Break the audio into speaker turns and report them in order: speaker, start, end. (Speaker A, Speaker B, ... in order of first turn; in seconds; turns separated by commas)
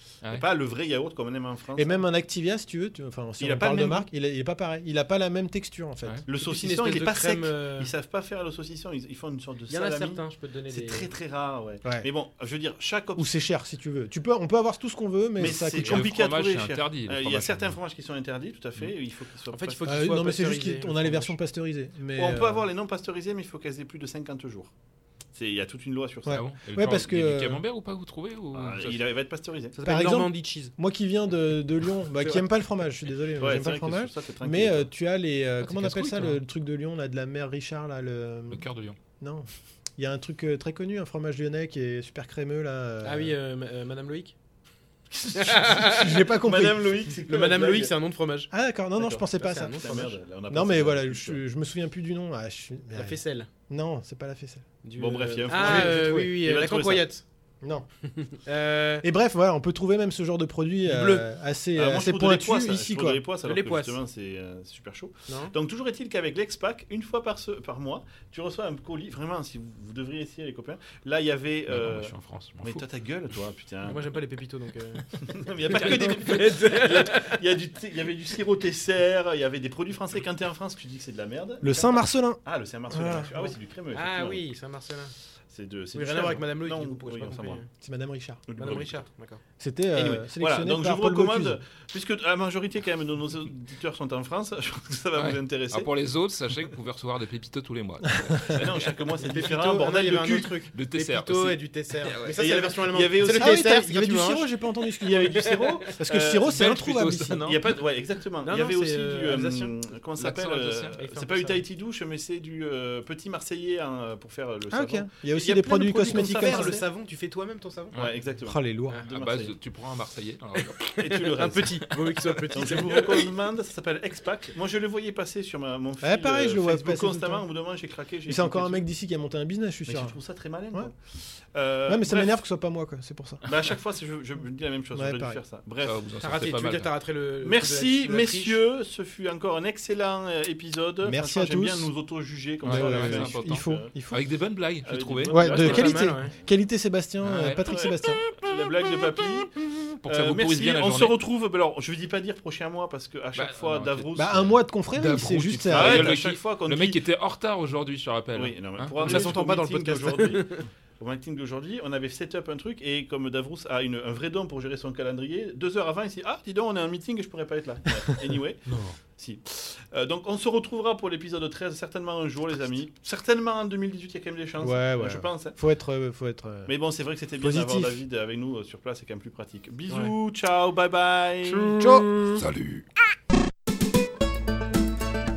Speaker A: 0.3-2.0, Speaker B: 1.8-6.2, Speaker A: 3.4-4.1, Speaker A: 6.3-13.3, Speaker C: 6.3-7.9, Speaker C: 9.7-11.1, Speaker B: 13.2-16.1, Speaker A: 15.3-19.9, Speaker D: 15.8-17.7, Speaker C: 19.5-21.4, Speaker B: 19.9-22.6, Speaker A: 22.1-24.7, Speaker A: 25.3-26.4, Speaker B: 26.3-27.6, Speaker D: 26.3-29.0, Speaker A: 28.5-29.8, Speaker C: 29.8-30.7, Speaker B: 29.8-38.6, Speaker A: 33.4-34.9, Speaker D: 35.6-36.4, Speaker D: 38.5-39.0, Speaker B: 39.2-43.3, Speaker C: 43.0-44.4, Speaker A: 45.1-47.9, Speaker C: 45.3-46.3, Speaker B: 45.7-46.8, Speaker C: 47.3-48.5, Speaker B: 48.5-54.6, Speaker C: 49.2-50.1, Speaker A: 49.8-51.4, Speaker C: 52.9-53.5, Speaker C: 54.8-57.2, Speaker A: 55.0-57.1, Speaker B: 55.5-56.1, Speaker B: 57.6-57.9, Speaker C: 58.1-59.0, Speaker B: 59.0-63.2, Speaker C: 60.9-61.3, Speaker A: 61.7-74.1, Speaker C: 63.4-64.0, Speaker C: 65.3-65.5, Speaker D: 71.7-72.8, Speaker C: 73.8-77.4, Speaker A: 75.1-84.4, Speaker B: 81.6-83.5, Speaker C: 83.9-85.1, Speaker A: 85.5-87.6, Speaker C: 85.9-87.7, Speaker B: 87.8-88.4, Speaker A: 88.5-89.0, Speaker C: 88.5-89.4, Speaker B: 89.6-91.6, Speaker A: 90.0-95.9, Speaker D: 95.2-98.9, Speaker A: 98.5-100.5, Speaker C: 99.2-104.5, Speaker D: 100.7-102.4, Speaker A: 102.3-103.7, Speaker B: 103.2-107.4, Speaker A: 105.0-106.5, Speaker C: 105.1-105.8, Speaker D: 106.4-107.8, Speaker A: 107.4-116.8, Speaker C: 108.4-109.7, Speaker D: 110.2-111.0, Speaker C: 111.0-111.6, Speaker B: 114.7-116.8, Speaker C: 116.3-118.0, Speaker A: 117.9-118.6, Speaker B: 118.4-119.0, Speaker C: 118.9-119.5, Speaker D: 119.1-120.8, Speaker C: 120.7-123.3, Speaker A: 120.9-121.8, Speaker A: 122.5-128.8, Speaker B: 126.0-127.4, Speaker B: 128.3-130.2, Speaker A: 129.9-131.0, Speaker A: 131.5-132.3, Speaker B: 131.9-133.4, Speaker A: 133.4-136.0, Speaker B: 134.9-135.4, Speaker D: 135.8-136.9, Speaker C: 136.2-138.6, Speaker A: 137.4-143.9, Speaker B: 141.0-141.9, Speaker D: 142.6-145.7, Speaker B: 142.6-144.2, Speaker A: 144.8-146.1, Speaker B: 145.3-148.2, Speaker C: 145.4-146.3, Speaker D: 147.2-147.7, Speaker A: 147.6-149.6, Speaker D: 150.0-151.1, Speaker A: 150.1-154.5, Speaker D: 153.3-159.3, Speaker B: 154.2-156.2, Speaker A: 155.7-157.0, Speaker A: 158.3-175.6, Speaker C: 158.9-160.6, Speaker D: 168.7-169.0, Speaker B: 174.6-176.7, Speaker A: 176.7-181.8, Speaker B: 177.4-178.0, Speaker B: 181.7-182.4, Speaker D: 182.3-182.8